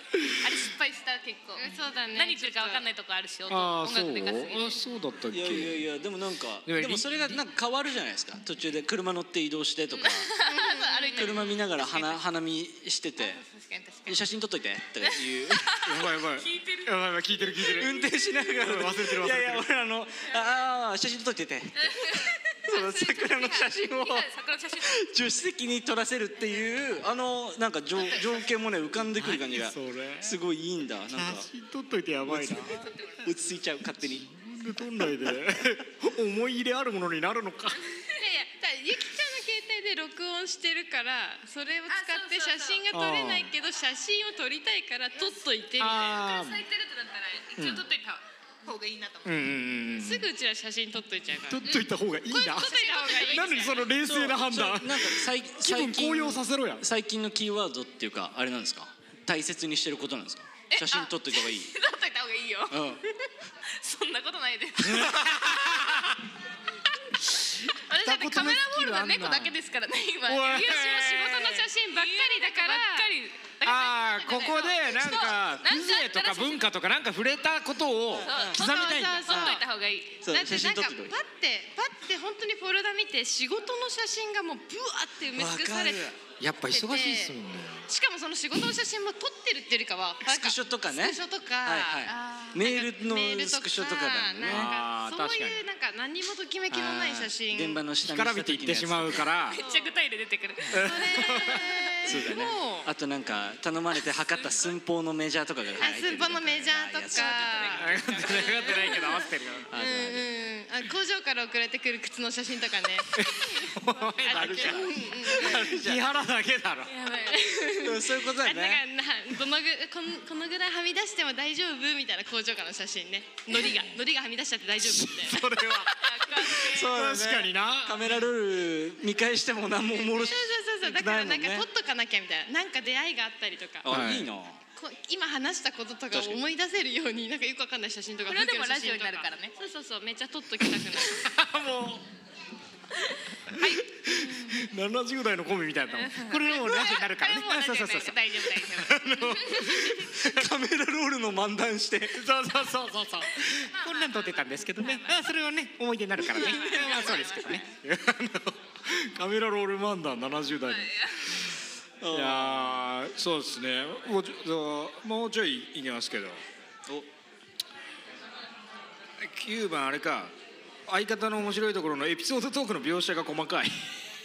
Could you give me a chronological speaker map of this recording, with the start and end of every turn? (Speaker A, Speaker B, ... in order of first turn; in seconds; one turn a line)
Speaker A: 0.3-4.8
Speaker B: 1.6-2.8
Speaker C: 3.5-5.8
Speaker D: 5.3-10.3
Speaker C: 6.7-7.4
Speaker A: 9.9-12.2
Speaker B: 10.4-11.5
Speaker D: 11.2-13.4
Speaker A: 13.2-14.2
Speaker D: 14.1-15.8
Speaker A: 15.0-16.9
Speaker C: 15.8-18.0
Speaker A: 17.5-17.8
Speaker D: 17.8-24.3
Speaker C: 18.6-19.6
Speaker A: 21.8-25.1
Speaker D: 24.8-31.5
Speaker A: 28.0-28.4
Speaker C: 29.1-30.4
Speaker C: 31.1-32.8
Speaker D: 32.2-34.3
Speaker A: 32.7-33.3
Speaker C: 34.0-37.8
Speaker A: 37.9-38.2
Speaker B: 38.2-46.2
Speaker A: 41.9-42.8
Speaker C: 42.9-43.5
Speaker C: 45.8-46.6
Speaker A: 46.0-49.4
Speaker C: 47.6-47.8
Speaker C: 49.2-50.3
Speaker B: 49.9-51.7
Speaker C: 51.5-56.8
Speaker A: 51.6-53.9
Speaker B: 52.4-53.8
Speaker D: 54.0-61.7
Speaker A: 60.7-66.1
Speaker D: 62.7-63.0
Speaker C: 64.9-66.2
Speaker C: 67.3-69.5
Speaker A: 67.7-76.7
Speaker C: 70.2-71.6
Speaker B: 71.4-73.1
Speaker C: 73.6-79.5
Speaker A: 78.2-80.2
Speaker D: 78.3-78.5
Speaker B: 78.5-79.7
Speaker D: 80.2-81.2
Speaker B: 80.3-86.1
Speaker D: 85.3-86.2
Speaker C: 86.4-87.9
Speaker B: 86.7-87.3
Speaker B: 87.9-97.8
Speaker D: 90.2-94.8
Speaker A: 92.1-92.6
Speaker C: 94.5-95.6
Speaker D: 96.7-99.3
Speaker C: 98.0-99.6
Speaker A: 99.5-101.9
Speaker B: 99.6-99.9
Speaker C: 100.7-101.6
Speaker B: 100.8-102.9
Speaker D: 102.0-107.8
Speaker B: 105.8-109.1
Speaker A: 107.1-109.3
Speaker C: 107.8-109.7
Speaker D: 109.7-110.3
Speaker B: 109.7-113.2
Speaker C: 113.1-117.0
Speaker A: 114.0-114.8
Speaker B: 114.3-115.7
Speaker D: 114.5-116.0
Speaker A: 116.9-117.8
Speaker B: 117.1-125.8
Speaker D: 117.8-118.8
Speaker C: 123.5-124.0
Speaker C: 124.8-128.0
Speaker A: 125.9-126.9
Speaker D: 126.6-131.7
Speaker B: 129.9-133.9
Speaker D: 133.8-134.6
Speaker C: 133.9-134.3
Speaker B: 134.8-141.2
Speaker D: 136.1-136.4
Speaker A: 138.3-139.5
Speaker C: 141.0-142.0
Speaker A: 143.0-144.5
Speaker C: 143.5-150.5
Speaker A: 146.0-149.9
Speaker D: 150.1-152.2
Speaker C: 152.1-160.9
Speaker A: 153.7-155.2
Speaker A: 156.3-157.7
Speaker D: 156.5-156.9
Speaker A: 160.6-161.6
Speaker D: 162.0-162.8
Speaker C: 162.1-166.4
Speaker C: 169.2-170.3
Speaker C: 170.9-173.9